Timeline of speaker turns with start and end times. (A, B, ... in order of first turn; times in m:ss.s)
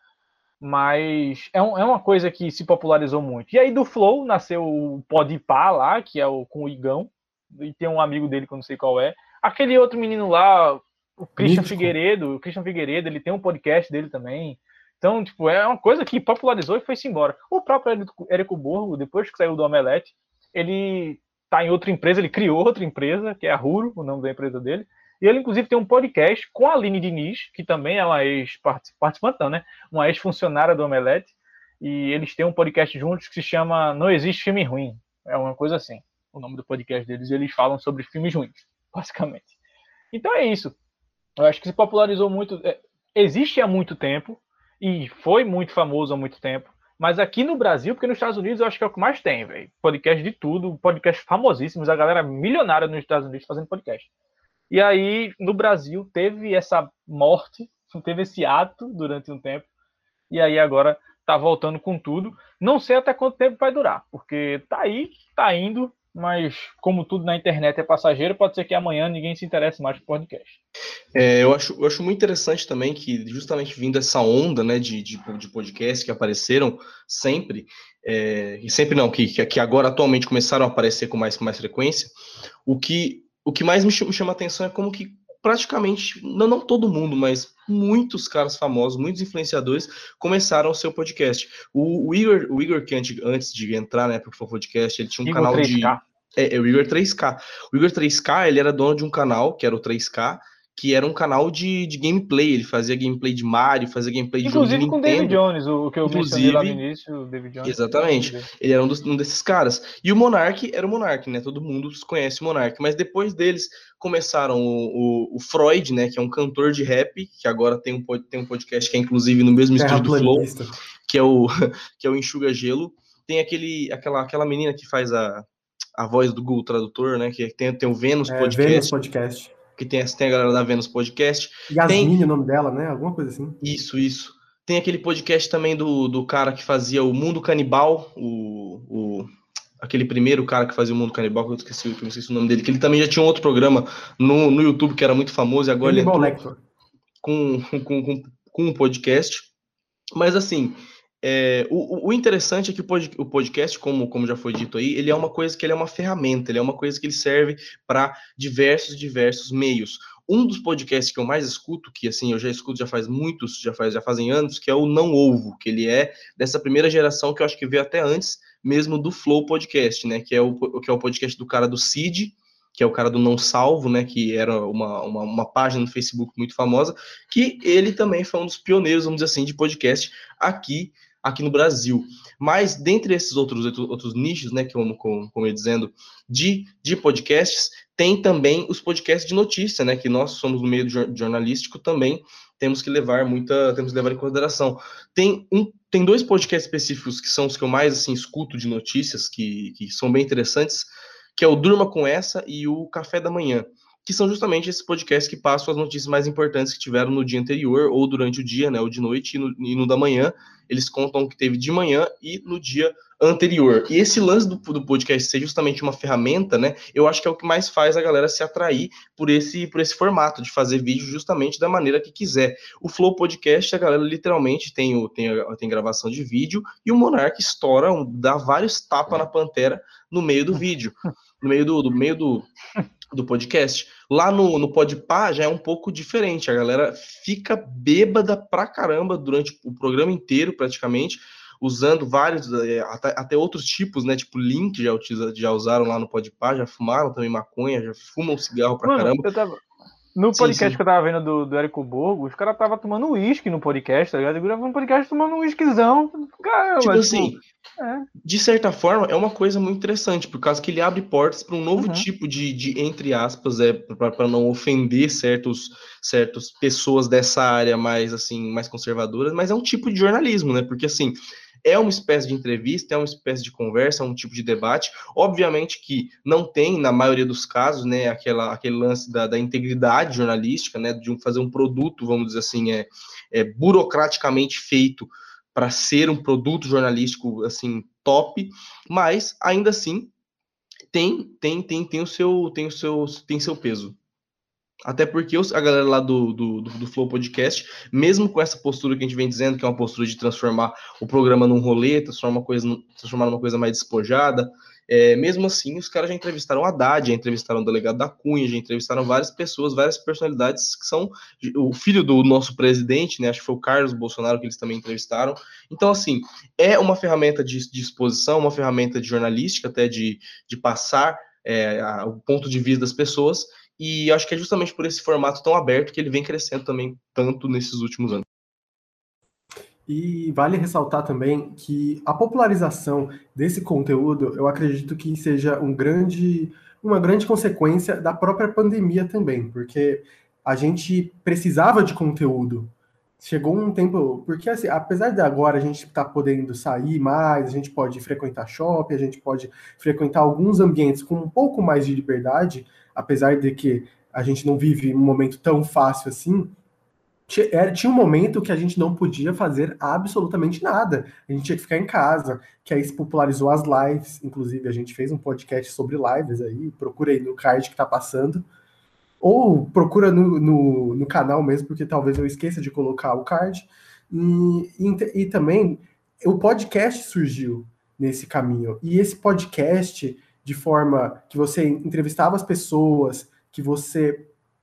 0:00.6-0:39.5 A
0:11.4-0:11.9 B
0:40.1-0:40.8 A
0:41.4-0:54.1 A
0:54.7-0:59.7 A
1:00.3-1:10.6 A
1:11.1-1:22.1 C
1:22.6-1:45.4 C
1:35.2-1:36.0 A
1:44.4-1:48.5 A
1:46.0-1:46.8 C
1:47.6-2:00.5 C
1:59.8-2:00.7 B
2:01.0-2:08.9 C
2:08.3-2:09.5 B
2:09.8-2:12.2 C
2:11.7-2:13.6 B
2:13.6-2:26.4 C
2:25.8-2:26.6 B
2:27.2-2:29.5 C
2:30.2-3:52.5 C
3:53.1-4:09.3 C
4:08.9-4:09.6 A
4:10.2-4:18.1 A
4:10.3-4:10.8 C
4:16.8-4:17.4 C
4:18.2-4:50.1 C
4:21.8-4:22.1 A
4:50.9-4:54.0 C
4:54.9-5:28.2 C
5:29.9-5:56.5 B
5:57.3-6:08.4 B
6:09.2-6:24.3 B